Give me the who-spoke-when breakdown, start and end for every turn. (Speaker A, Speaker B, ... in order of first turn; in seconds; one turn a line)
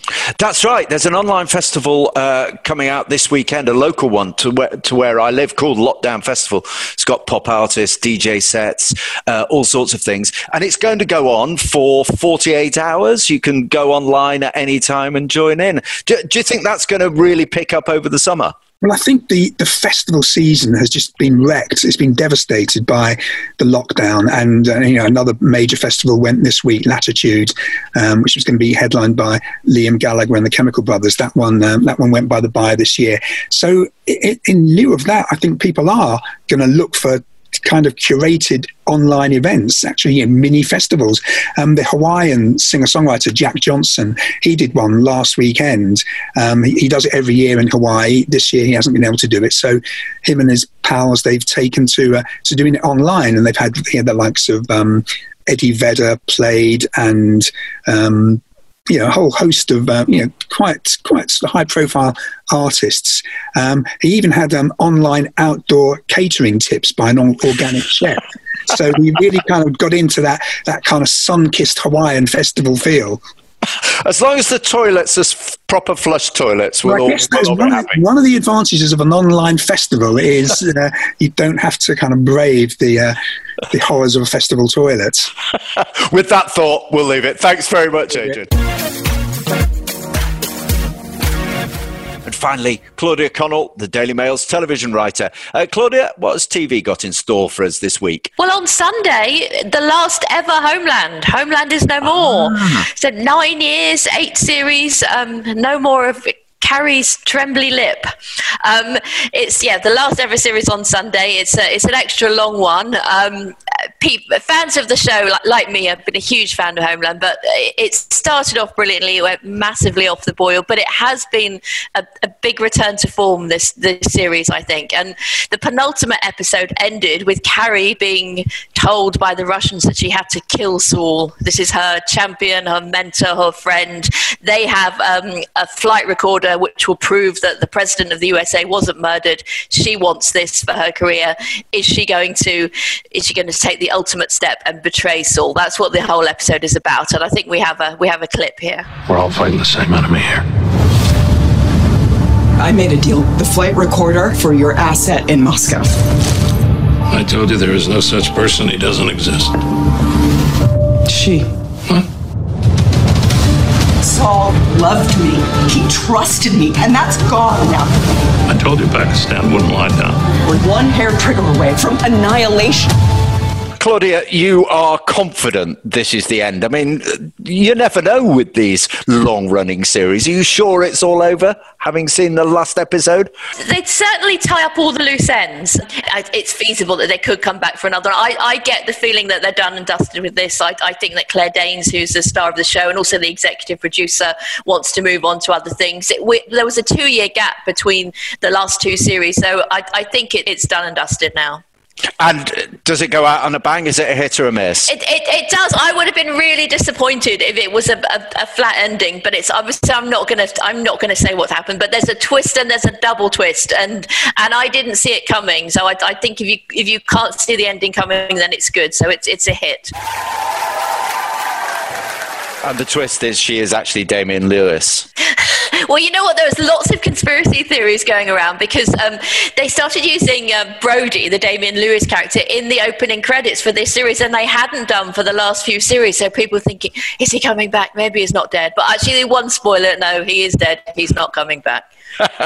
Speaker A: 0.4-18.5
Speaker B: 18.8-73.2
Speaker A: 73.8-78.0
Speaker B: 76.8-83.2
Speaker B: 83.7-85.3
Speaker A: 86.1-88.5
Speaker A: 92.2-98.3
Speaker C: 98.4-148.9
Speaker A: 102.0-102.9
Speaker D: 149.1-150.4
Speaker E: 152.6-155.9
Speaker D: 157.1-159.5
Speaker E: 161.1-161.5
Speaker E: 164.0-167.9
Speaker D: 168.5-170.2
Speaker E: 170.4-172.9
Speaker A: 173.8-183.3
Speaker C: 183.6-201.6
Speaker A: 202.2-204.9
Speaker C: 204.9-219.9
Speaker A: 222.6-225.1
Speaker C: 225.4-241.8